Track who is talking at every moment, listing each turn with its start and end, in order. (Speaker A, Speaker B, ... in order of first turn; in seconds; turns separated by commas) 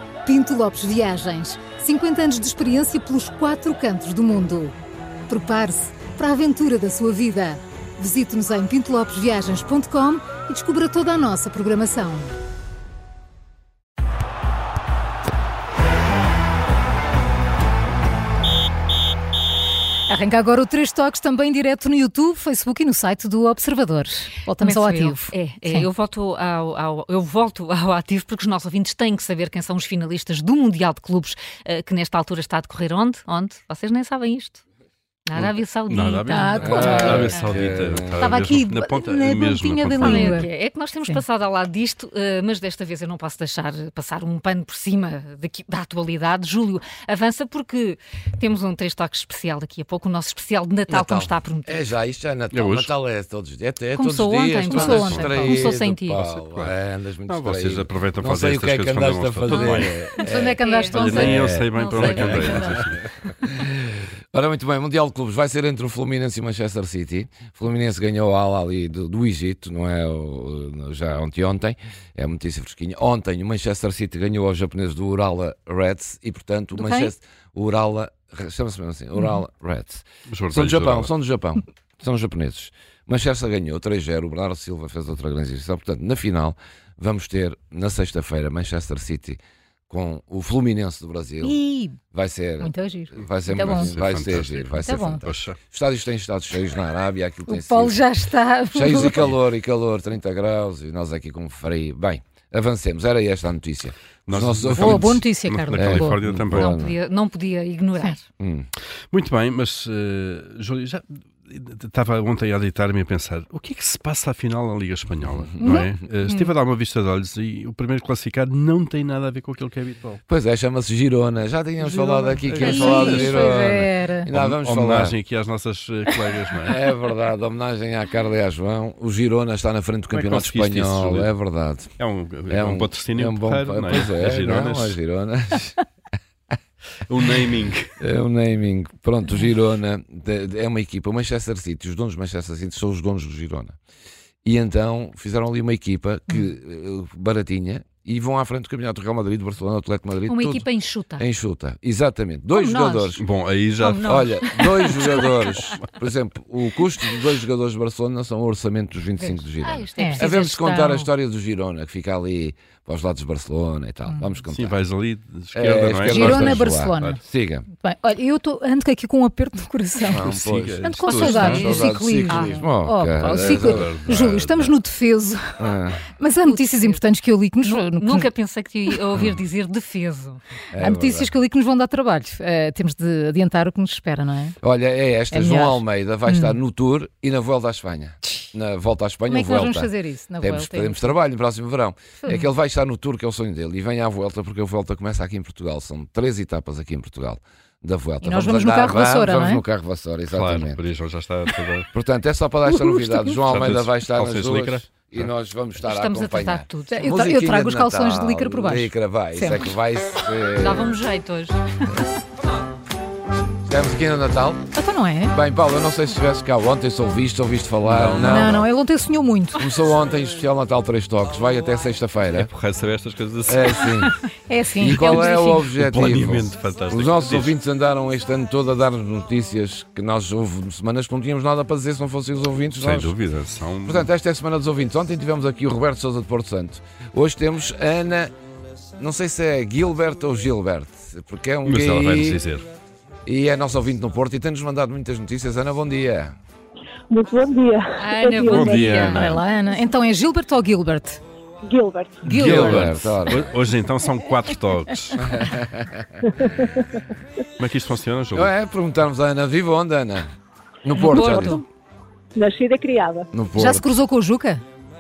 Speaker A: 0.2-4.8, Speaker A: 5.3-12.4, Speaker A: 20.1-25.9, Speaker B: 24.6-34.6, Speaker B: 35.3-37.7, Speaker C: 35.4-40.4, Speaker A: 36.3-37.3, Speaker D: 36.7-38.4, Speaker A: 38.2-40.5, Speaker B: 40.0-51.9, Speaker D: 50.9-91.6, Speaker C: 52.5-52.9, Speaker B: 54.0-56.2, Speaker A: 54.7-55.6, Speaker C: 54.9-55.4, Speaker C: 56.1-56.7, Speaker C: 57.3-60.0, Speaker B: 59.5-62.8, Speaker A: 60.2-61.4, Speaker C: 60.9-63.1, Speaker A: 76.8-77.1, Speaker C: 80.3-81.1, Speaker A: 91.4-92.0, Speaker D: 92.1-98.0, Speaker A: 92.6-94.0, Speaker C: 93.7-95.6, Speaker A: 94.8-95.2, Speaker A: 97.5-99.3, Speaker D: 98.7-105.2, Speaker C: 104.3-106.8, Speaker A: 104.7-106.2, Speaker D: 105.7-107.0, Speaker B: 106.5-108.2, Speaker D: 108.4-108.7, Speaker C: 109.1-120.2, Speaker D: 115.5-115.8, Speaker A: 115.6-116.5, Speaker D: 120.3-125.2, Speaker C: 121.8-123.5, Speaker A: 122.6-124.3, Speaker C: 124.3-126.8, Speaker D: 126.7-131.9, Speaker C: 130.1-131.3, Speaker C: 132.0-135.0, Speaker D: 132.5-135.8, Speaker C: 137.1-137.9, Speaker D: 138.0-143.8, Speaker D: 144.4-153.2, Speaker B: 150.3-151.2, Speaker B: 152.5-153.1, Speaker C: 153.2-154.1, Speaker B: 153.8-155.4, Speaker D: 154.0-164.8, Speaker B: 159.2-161.1, Speaker A: 160.0-160.2, Speaker C: 164.5-167.2, Speaker D: 165.5-167.7, Speaker A: 166.1-167.2, Speaker A: 167.8-170.2, Speaker D: 170.1-174.0, Speaker C: 170.2-171.7, Speaker A: 170.8-178.3, Speaker B: 171.2-172.7, Speaker C: 173.2-174.7, Speaker D: 175.6-176.0, Speaker B: 176.4-177.0, Speaker B: 177.6-180.4, Speaker D: 180.8-181.3, Speaker A: 180.8-184.6, Speaker D: 184.6-200.8, Speaker A: 185.3-186.6, Speaker A: 189.3-191.1, Speaker A: 198.2-199.6, Speaker C: 200.3-201.9, Speaker D: 201.9-210.9, Speaker A: 202.7-203.4, Speaker C: 203.4-205.3, Speaker B: 205.8-207.1, Speaker A: 206.9-209.7, Speaker B: 210.6-211.6, Speaker D: 213.7-214.6, Speaker A: 214.7-215.3, Speaker D: 215.3-218.7, Speaker C: 217.8-218.6, Speaker A: 218.2-219.6, Speaker D: 219.6-222.5, Speaker C: 222.3-223.8, Speaker D: 223.4-224.1, Speaker A: 224.5-225.7, Speaker D: 224.8-233.1, Speaker C: 225.7-227.6, Speaker C: 232.8-234.1, Speaker D: 233.8-238.3, Speaker D: 239.0-242.4, Speaker C: 241.7-242.7, Speaker D: 243.2-246.3, Speaker E: 247.1-249.3, Speaker B: 248.0-249.3, Speaker C: 248.4-249.4, Speaker A: 249.1-251.2, Speaker E: 251.6-252.3, Speaker A: 252.2-253.2, Speaker C: 252.3-255.3, Speaker D: 252.3-253.5, Speaker D: 255.2-256.2, Speaker E: 256.4-257.0, Speaker C: 257.6-258.5, Speaker D: 258.4-260.3, Speaker D: 260.8-261.6, Speaker B: 260.9-261.6, Speaker E: 262.4-263.3, Speaker D: 263.3-263.9, Speaker A: 263.6-264.6